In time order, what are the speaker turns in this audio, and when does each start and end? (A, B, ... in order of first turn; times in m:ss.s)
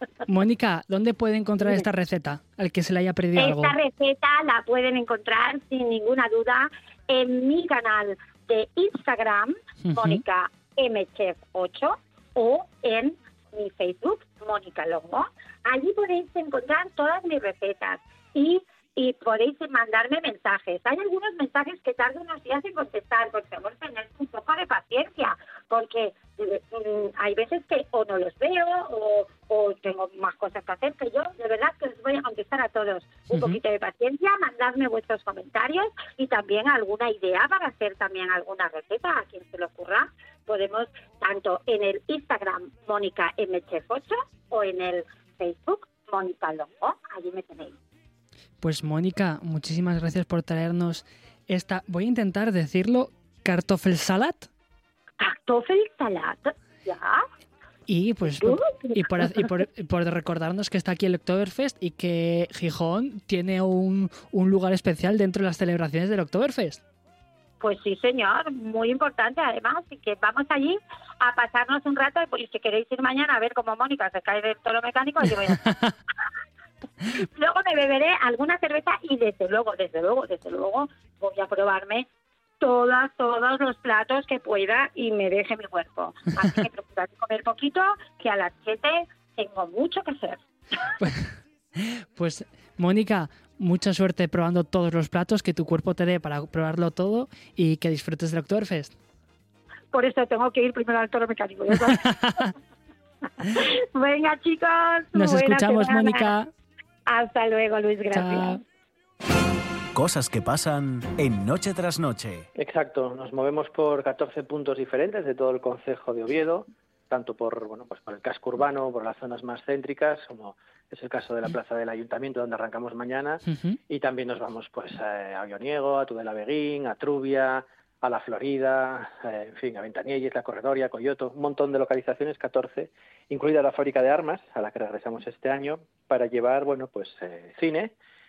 0:00.3-0:03.8 A
0:03.4-0:47.8 B
0:09.8-0:10.2 A
0:33.3-0:33.6 A
0:48.6-0:54.5 A
0:55.2-0:57.2 B
0:57.9-1:06.8 A
0:58.2-0:59.6 B
1:07.6-1:15.7 B
1:15.6-1:16.0 A
1:17.2-1:22.1 B
1:22.6-1:30.4 B
1:31.0-1:39.0 A
1:39.9-1:42.0 B
1:41.8-1:42.5 A
1:43.6-1:46.3 B
1:45.1-1:46.5 A
1:47.1-1:48.6 B
1:48.1-1:48.6 A
1:50.0-1:52.5 C
1:52.6-2:17.9 D
2:03.4-2:03.8 A